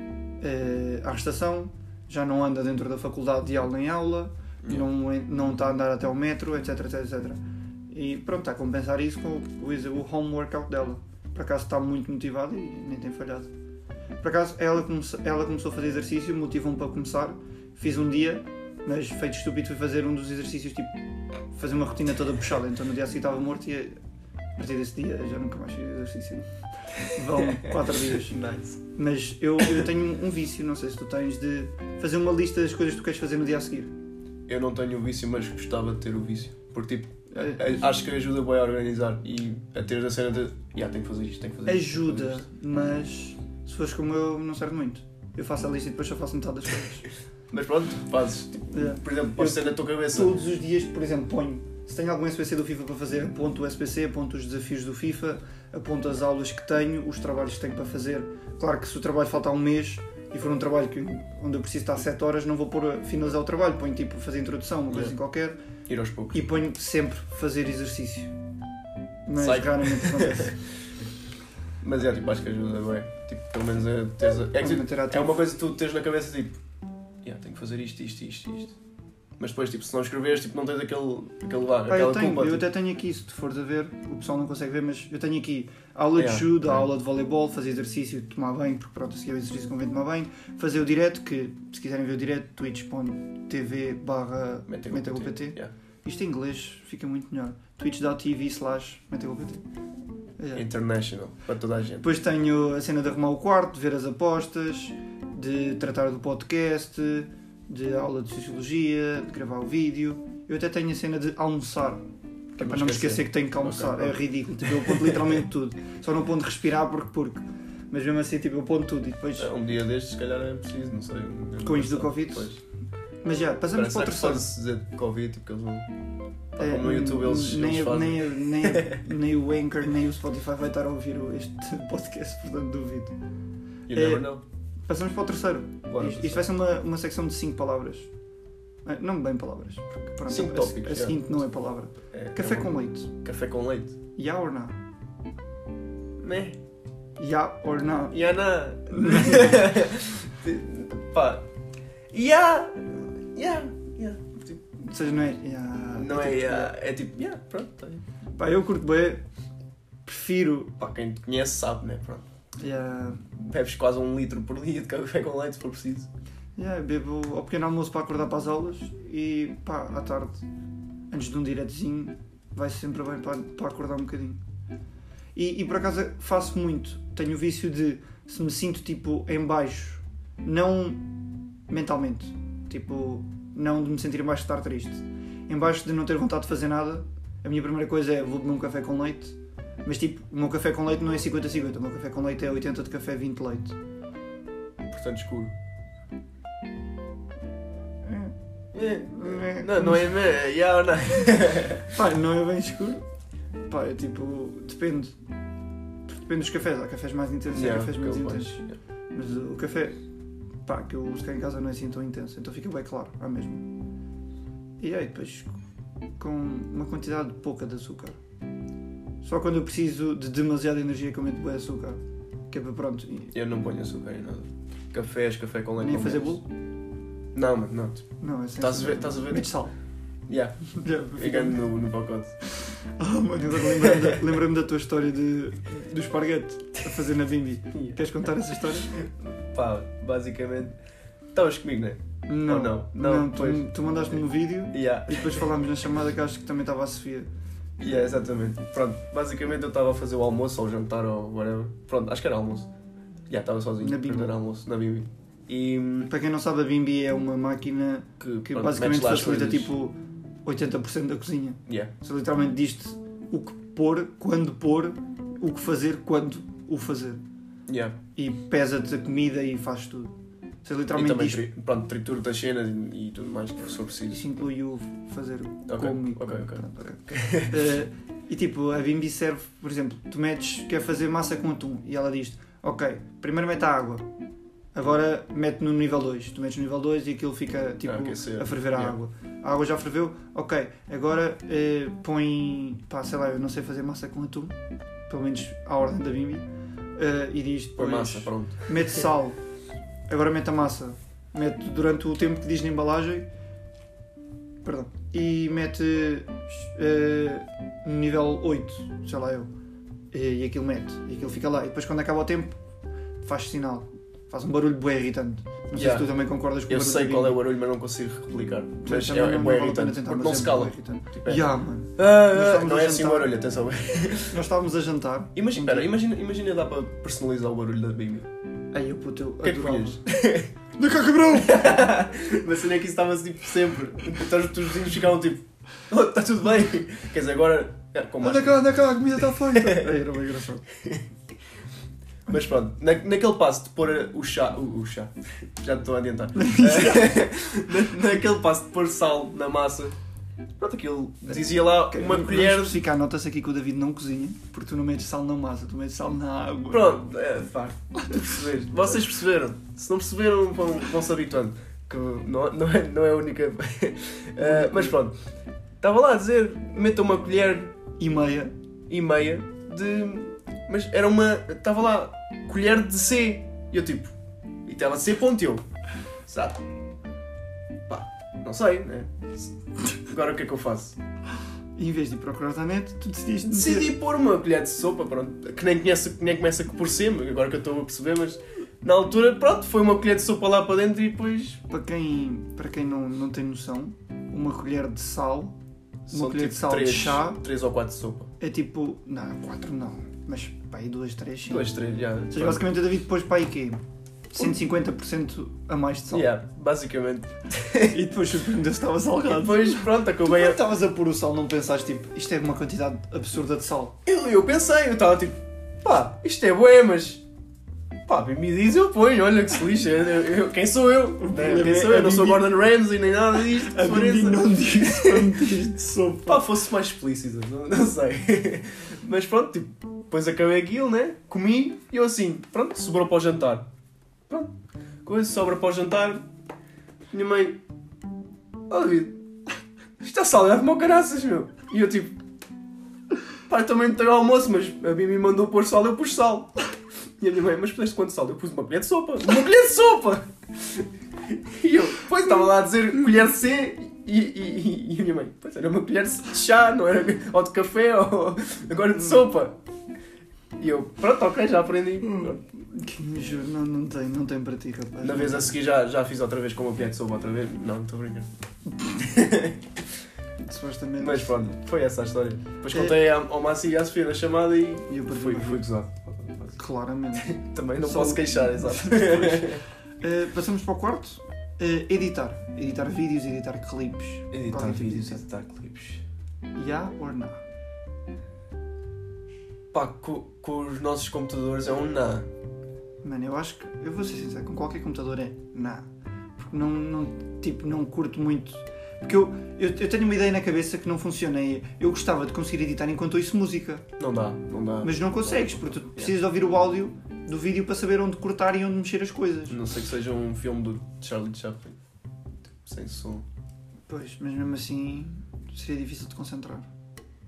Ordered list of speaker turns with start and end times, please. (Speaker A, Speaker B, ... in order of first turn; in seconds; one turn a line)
Speaker A: 0.4-13.5
Speaker A: 14.2-20.9
Speaker A: 21.5-24.0
Speaker A: 24.6-33.9
Speaker B: 27.4-28.8
Speaker B: 34.5-42.5
Speaker A: 37.3-37.8
Speaker A: 41.7-47.1
Speaker B: 47.5-50.4
Speaker A: 48.7-65.6
Speaker B: 64.9-65.2
Speaker B: 65.9-66.4
Speaker A: 66.3-68.3
Speaker A: 69.3-70.6
Speaker B: 69.4-70.7
Speaker B: 71.8-76.6
Speaker A: 74.6-75.3
Speaker B: 77.2-78.8
Speaker B: 79.4-82.7
Speaker A: 81.9-99.6
Speaker B: 86.2-86.8
Speaker B: 94.7-95.7
Speaker A: 100.4-100.7
Speaker B: 100.5-102.1
Speaker A: 102.0-112.0
Speaker A: 112.5-119.5
Speaker B: 112.6-115.4
Speaker B: 119.4-122.6
Speaker A: 121.6-122.6
Speaker A: 123.2-124.5
Speaker B: 123.7-125.9
Speaker B: 126.5-129.0
Speaker A: 126.6-133.2
Speaker B: 133.9-134.4
Speaker A: 133.9-138.1
Speaker B: 135.9-136.4
Speaker A: 138.8-143.1
Speaker B: 140.3-141.4
Speaker B: 142.1-144.0
Speaker A: 144.2-144.8
Speaker B: 146.2-146.6
Speaker A: 147.2-148.2
Speaker B: 148.1-151.5
Speaker A: 148.9-149.7
Speaker B: 152.1-154.6
Speaker A: 154.8-156.8
Speaker B: 156.0-158.0
Speaker A: 158.4-159.2
Speaker A: 160.1-160.8
Speaker B: 160.8-162.3
Speaker A: 162.6-163.3
Speaker B: 163.3-166.1
Speaker A: 166.6-170.4
Speaker A: 171.1-174.4
Speaker A: 175.3-181.1
Speaker A: 181.7-193.8
Speaker B: 194.9-195.5
Speaker A: 198.0-198.3
Speaker B: 198.7-202.0
Speaker A: 199.0-200.2
Speaker A: 201.9-203.0
Speaker A: 203.7-205.2
Speaker A: 206.1-208.6
Speaker B: 207.5-208.8
Speaker A: 209.1-210.0
Speaker A: 210.7-213.7
Speaker A: 214.8-215.6
Speaker A: 216.2-218.2
Speaker A: 219.2-223.3
Speaker B: 223.3-226.4
Speaker A: 225.8-226.4
Speaker B: 227.3-228.1
Speaker A: 228.2-229.7
Speaker B: 228.6-229.5
Speaker B: 230.3-232.4
Speaker A: 230.7-231.7
Speaker A: 232.4-239.0
Speaker B: 233.7-234.3
Speaker B: 237.7-238.0
Speaker B: 238.9-240.8
Speaker B: 241.3-244.2
Speaker A: 242.3-247.3
Speaker B: 244.7-245.5
Speaker B: 247.8-252.7
Speaker B: 253.3-256.1
Speaker A: 253.8-254.3
Speaker A: 256.1-267.2
Speaker B: 258.2-259.7
Speaker B: 261.7-261.9
Speaker B: 267.7-268.0
Speaker A: 268.2-271.5
Speaker B: 270.9-274.3
Speaker A: 274.1-284.1
Speaker B: 275.7-277.6
Speaker A: 284.8-294.6
Speaker B: 287.8-289.0
Speaker A: 295.1-299.4
Speaker B: 297.8-299.0
Speaker A: 300.1-303.3
Speaker A: 304.6-309.5
Speaker A: 310.1-312.6
Speaker A: 313.2-317.4
Speaker B: 315.7-316.1
Speaker B: 316.7-324.4
Speaker A: 318.8-323.3
Speaker A: 324.3-325.9
Speaker B: 325.4-328.3
Speaker A: 328.7-330.0
Speaker B: 329.4-330.5
Speaker A: 330.8-332.0
Speaker B: 331.3-338.7
Speaker A: 338.2-340.7
Speaker B: 339.2-340.0
Speaker B: 340.7-341.1
Speaker B: 342.3-350.0
Speaker A: 346.4-347.2
Speaker B: 350.6-352.8
Speaker A: 351.2-356.9
Speaker B: 356.7-365.2
Speaker A: 358.1-358.4
Speaker A: 364.4-365.0
Speaker B: 365.8-367.7
Speaker A: 368.0-368.5
Speaker B: 368.9-374.1
Speaker B: 374.6-375.6
Speaker B: 376.2-376.6
Speaker B: 377.9-379.5
Speaker B: 380.1-381.0
Speaker A: 381.8-383.9
Speaker B: 383.4-391.6
Speaker A: 391.7-395.6
Speaker B: 396.1-398.3
Speaker A: 396.1-397.4
Speaker A: 398.4-401.7
Speaker B: 401.5-402.7
Speaker A: 402.3-406.3
Speaker B: 406.1-408.0
Speaker A: 407.8-414.0
Speaker B: 409.2-410.6
Speaker B: 414.1-417.2
Speaker B: 418.1-425.6
Speaker A: 421.2-422.5
Speaker A: 423.4-426.5
Speaker B: 426.2-433.7
Speaker B: 434.3-436.3
Speaker B: 437.1-437.6
Speaker B: 438.7-439.2
Speaker B: 440.0-442.2
Speaker B: 443.5-446.6
Speaker B: 447.2-459.6
Speaker B: 460.6-462.4
Speaker A: 462.2-465.6
Speaker B: 465.0-468.3
Speaker A: 468.8-469.1
Speaker B: 468.9-469.8
Speaker A: 470.4-471.5
Speaker B: 471.0-476.6
Speaker A: 472.7-473.0
Speaker A: 474.9-475.7
Speaker A: 476.6-485.2
Speaker B: 477.2-479.6
Speaker B: 484.3-486.0
Speaker A: 486.6-487.4
Speaker B: 489.7-492.3
Speaker A: 493.0-495.9
Speaker A: 496.4-503.9
Speaker B: 504.0-506.1
Speaker A: 504.8-509.6
Speaker B: 509.5-511.8
Speaker B: 512.6-513.3
Speaker A: 513.9-516.7